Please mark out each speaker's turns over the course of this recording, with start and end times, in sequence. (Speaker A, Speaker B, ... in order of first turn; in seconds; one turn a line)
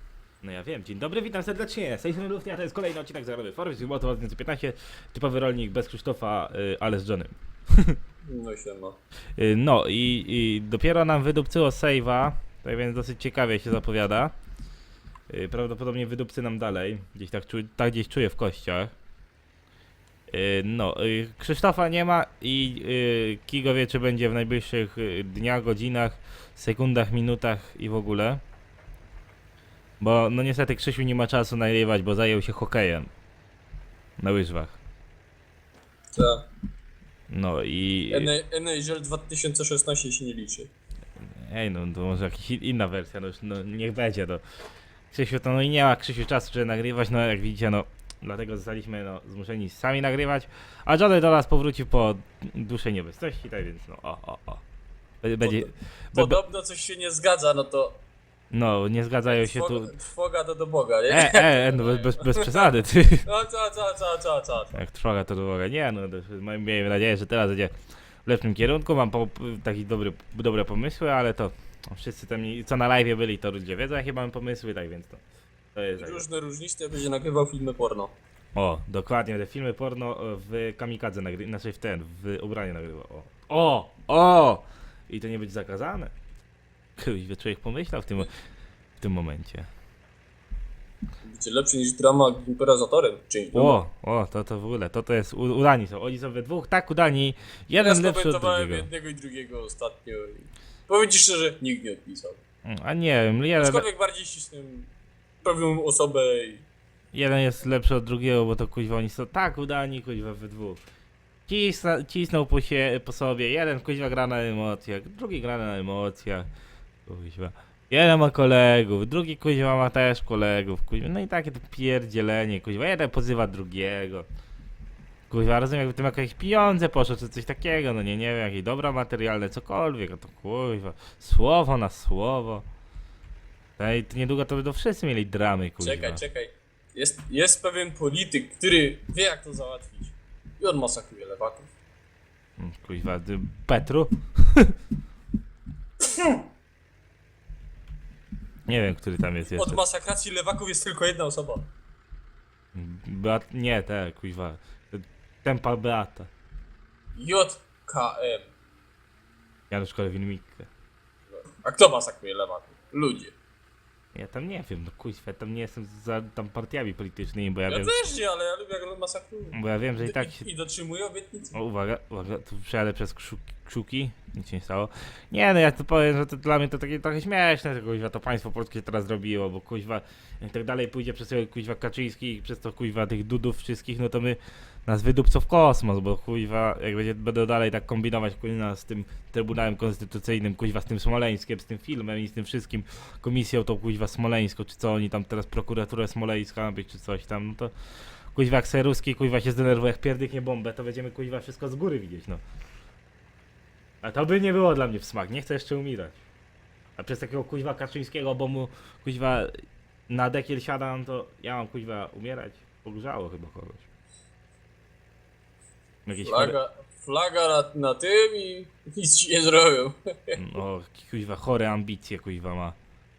Speaker A: 0.4-8.0
Speaker B: 8.2-9.0
Speaker A: 9.4-14.3
Speaker A: 15.3-18.9
Speaker A: 20.3-28.4
Speaker A: 30.0-33.1
Speaker A: 34.2-34.8
Speaker B: 36.2-36.5
Speaker A: 37.3-38.3
Speaker B: 38.1-40.7
Speaker A: 41.2-44.4
Speaker A: 45.1-54.6
Speaker A: 55.2-56.4
Speaker B: 55.4-58.0
Speaker A: 58.5-59.9
Speaker B: 59.3-62.7
Speaker A: 61.1-63.3
Speaker B: 63.2-64.8
Speaker A: 64.7-75.2
Speaker A: 75.8-76.2
Speaker B: 76.0-78.2
Speaker A: 78.5-86.1
Speaker A: 87.0-88.3
Speaker A: 89.0-89.7
Speaker B: 91.2-93.8
Speaker A: 93.5-98.9
Speaker B: 97.8-102.4
Speaker A: 102.7-103.8
Speaker B: 103.6-104.9
Speaker B: 105.4-106.7
Speaker A: 107.1-110.8
Speaker A: 111.5-116.5
Speaker A: 117.1-124.3
Speaker A: 125.3-132.7
Speaker A: 133.8-136.2
Speaker B: 135.8-141.7
Speaker A: 142.6-144.8
Speaker A: 148.7-149.8
Speaker B: 149.4-151.7
Speaker A: 152.7-156.3
Speaker B: 157.2-158.5
Speaker A: 159.7-160.7
Speaker B: 161.4-163.3
Speaker A: 164.1-168.0
Speaker B: 167.7-171.6
Speaker A: 169.5-170.4
Speaker A: 171.5-197.7
Speaker A: 198.3-202.4
Speaker A: 204.0-206.2
Speaker A: 207.0-209.6
Speaker A: 210.1-213.8
Speaker A: 216.1-216.6
Speaker B: 216.2-220.4
Speaker A: 220.4-222.8